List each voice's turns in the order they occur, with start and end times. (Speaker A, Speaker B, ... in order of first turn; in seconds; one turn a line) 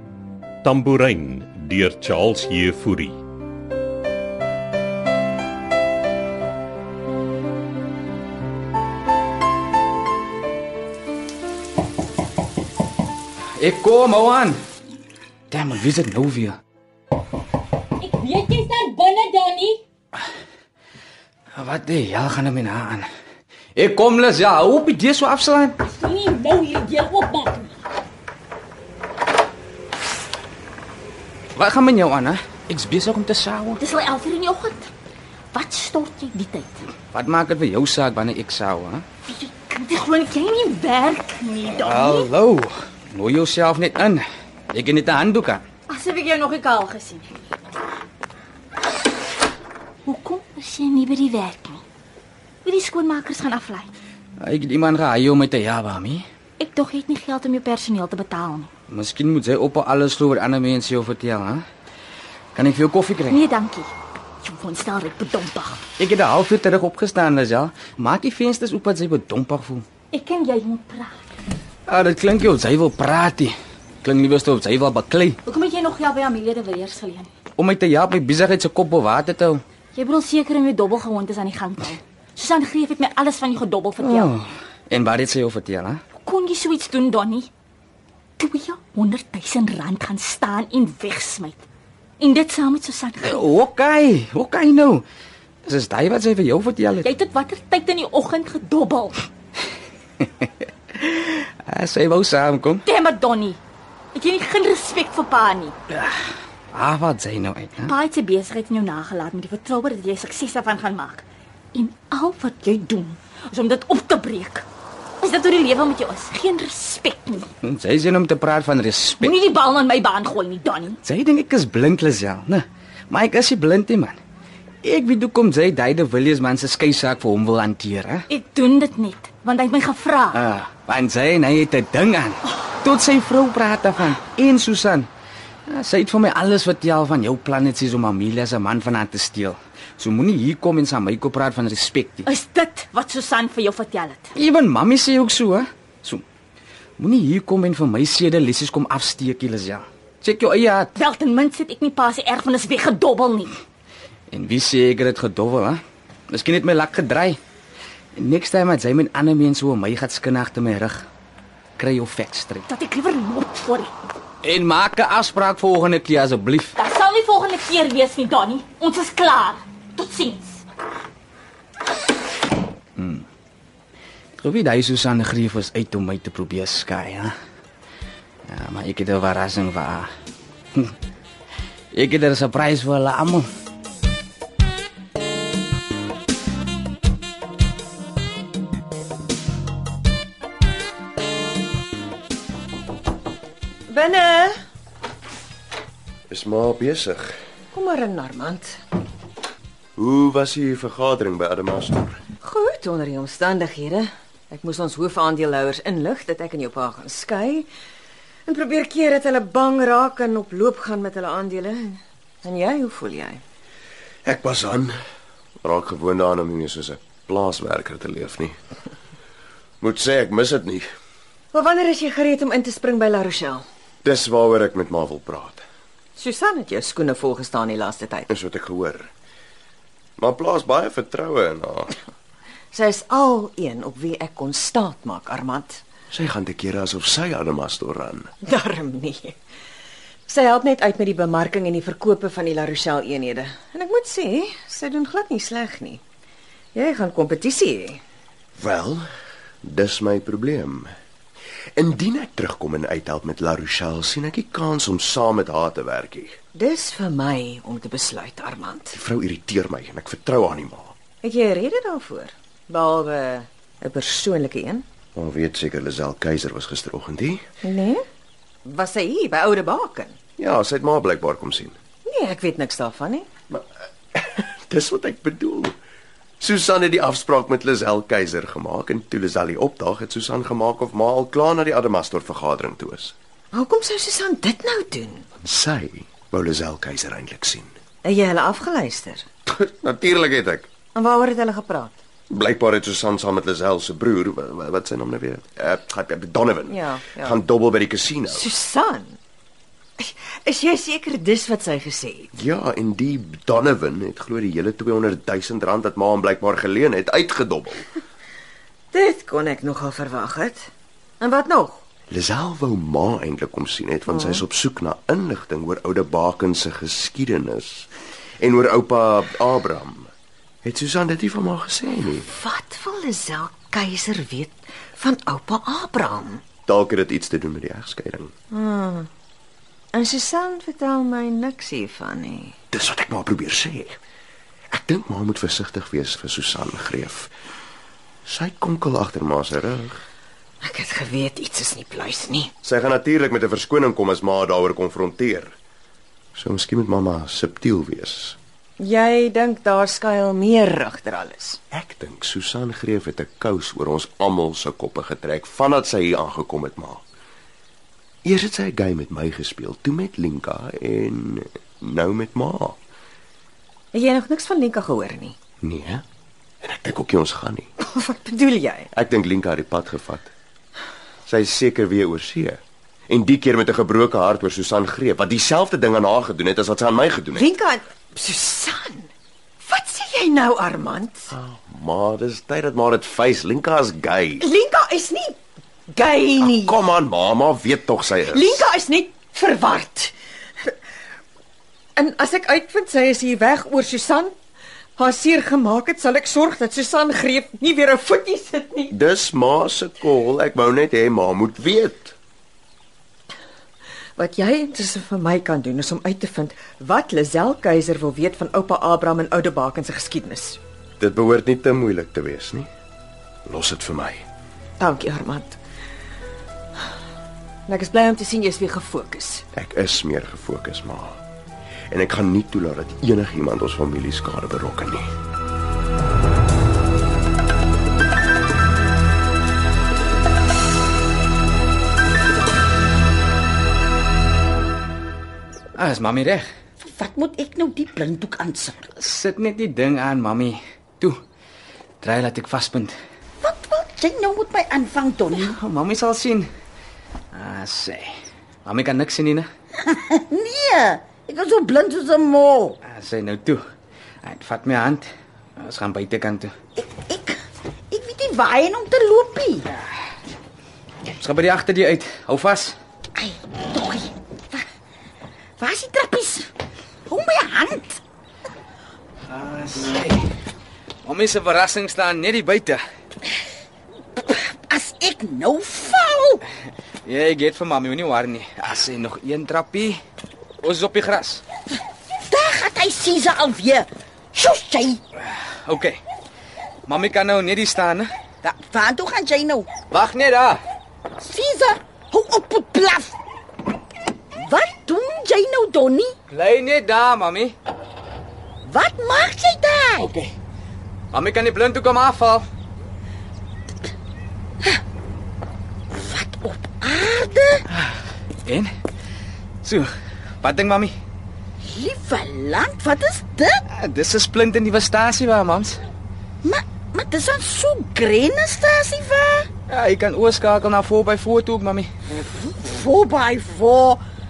Speaker A: 0.6-3.2
Speaker B: 13.6-14.6
Speaker B: 15.5-16.6
Speaker C: 18.0-19.8
Speaker B: 21.6-23.1
Speaker B: 23.8-25.8
Speaker C: 25.8-27.7
Speaker B: 31.5-33.8
Speaker C: 33.8-34.9
Speaker C: 35.5-36.9
Speaker B: 37.1-39.0
Speaker C: 39.2-42.3
Speaker B: 41.8-45.6
Speaker C: 45.9-47.4
Speaker C: 50.0-51.8
Speaker C: 52.6-53.9
Speaker B: 54.4-56.2
Speaker C: 56.6-58.7
Speaker B: 58.9-61.6
Speaker B: 62.5-63.4
Speaker C: 63.3-65.8
Speaker B: 66.0-69.8
Speaker C: 70.1-71.2
Speaker B: 71.9-75.4
Speaker C: 75.4-77.3
Speaker B: 77.6-79.6
Speaker C: 79.9-84.3
Speaker B: 84.0-86.0
Speaker C: 86.2-87.5
Speaker C: 88.4-91.6
Speaker C: 92.2-93.4
Speaker B: 93.2-95.0
Speaker B: 95.6-97.0
Speaker C: 97.0-99.2
Speaker B: 100.2-102.8
Speaker C: 102.8-103.6
Speaker C: 104.1-105.8
Speaker B: 106.7-107.9
Speaker C: 107.8-114.6
Speaker C: 115.2-117.5
Speaker B: 117.6-119.3
Speaker C: 119.2-121.0
Speaker B: 121.0-124.2
Speaker B: 124.8-128.2
Speaker C: 128.3-130.4
Speaker B: 130.3-135.1
Speaker B: 135.7-142.3
Speaker C: 142.2-144.3
Speaker B: 144.3-146.2
Speaker B: 147.0-150.9
Speaker C: 150.9-153.5
Speaker B: 154.3-157.4
Speaker B: 158.2-161.1
Speaker B: 161.8-162.7
Speaker C: 162.7-163.9
Speaker B: 164.4-166.7
Speaker C: 166.8-170.6
Speaker B: 173.0-173.2
Speaker B: 174.4-177.3
Speaker B: 178.4-180.1
Speaker B: 181.9-183.5
Speaker D: 193.9-194.5
Speaker E: 196.3-197.3
Speaker D: 197.7-198.8
Speaker E: 200.0-202.2
Speaker D: 202.4-207.7
Speaker D: 208.5-213.4
Speaker E: 214.2-214.9
Speaker E: 215.6-218.6
Speaker E: 219.8-220.9
Speaker D: 221.5-223.6
Speaker E: 224.0-225.6
Speaker D: 226.2-228.3
Speaker E: 228.3-229.1
Speaker E: 230.2-231.9
Speaker D: 232.7-235.8
Speaker E: 236.1-238.3
Speaker D: 238.4-239.4
Speaker D: 240.3-246.0
Speaker D: 246.7-248.0
Speaker E: 248.6-249.0
Speaker E: 249.6-250.9
Speaker E: 251.8-256.4
Speaker D: 256.5-259.0
Speaker E: 258.9-260.9
Speaker D: 261.2-264.8
Speaker E: 265.1-267.4
Speaker D: 267.6-268.0
Speaker D: 268.6-270.2
Speaker E: 270.4-271.8
Speaker D: 272.0-273.3
Speaker E: 274.1-275.7
Speaker E: 276.4-283.1
Speaker D: 283.5-285.3
Speaker E: 285.4-287.7
Speaker D: 288.0-289.2
Speaker E: 289.4-290.7
Speaker D: 290.9-291.9
Speaker E: 292.3-298.4
Speaker D: 296.7-297.4
Speaker D: 298.3-299.2
Speaker D: 300.0-302.3
Speaker E: 302.3-307.9
Speaker D: 308.9-310.7
Speaker D: 311.2-311.8
Speaker E: 312.1-317.9
Speaker D: 314.1-314.4
Speaker E: 318.4-320.1
Speaker E: 320.6-322.3
Speaker D: 322.3-326.4
Speaker E: 326.6-328.3
Speaker D: 328.5-329.1
Speaker D: 329.9-332.6
Speaker E: 332.7-334.0
Speaker E: 334.7-337.3
Speaker E: 338.2-340.0
Speaker D: 340.6-342.5
Speaker E: 342.6-345.6
Speaker E: 346.3-348.4
Speaker D: 348.8-351.6
Speaker E: 351.7-357.0
Speaker E: 358.2-362.8
Speaker D: 363.9-365.4
Speaker E: 365.6-366.0
Speaker E: 366.6-367.7
Speaker D: 367.8-368.9
Speaker E: 368.9-370.3
Speaker E: 371.2-377.5
Speaker D: 377.3-379.1
Speaker D: 379.6-381.3
Speaker E: 381.3-384.4
Speaker D: 384.4-386.8
Speaker E: 386.4-388.6
Speaker D: 388.2-390.7
Speaker D: 391.9-394.3
Speaker D: 395.0-398.9
Speaker E: 398.9-402.1
Speaker D: 404.2-410.6
Speaker E: 411.0-412.7
Speaker E: 413.5-414.2
Speaker D: 414.8-415.6
Speaker D: 417.7-419.4
Speaker E: 419.5-421.2
Speaker E: 421.9-425.1
Speaker B: 435.8-436.4
Speaker F: 436.8-438.8
Speaker B: 438.9-441.2
Speaker B: 442.0-442.9
Speaker F: 443.4-445.5
Speaker B: 445.3-446.5
Speaker B: 447.3-448.1
Speaker B: 448.6-449.5
Speaker F: 449.8-452.8
Speaker B: 452.8-453.6
Speaker B: 454.2-456.5
Speaker F: 456.8-457.4
Speaker F: 457.9-459.6
Speaker B: 461.2-462.8
Speaker F: 463.1-464.6
Speaker F: 465.6-466.5
Speaker F: 467.1-468.0
Speaker B: 469.3-470.2
Speaker B: 471.0-472.8
Speaker F: 474.2-476.4
Speaker B: 477.0-480.0
Speaker B: 480.6-481.4
Speaker F: 482.2-485.0
Speaker B: 485.2-486.0
Speaker B: 486.9-488.1
Speaker F: 488.4-489.7
Speaker B: 489.9-490.6
Speaker F: 491.2-493.1
Speaker F: 494.4-496.1
Speaker B: 496.3-497.5
Speaker F: 498.6-500.1
Speaker B: 501.1-502.4
Speaker F: 505.9-507.6
Speaker B: 509.6-509.9
Speaker B: 510.4-510.9
Speaker F: 511.6-513.6
Speaker B: 513.7-515.8
Speaker F: 516.4-519.5
Speaker B: 519.7-521.9
Speaker F: 522.1-524.0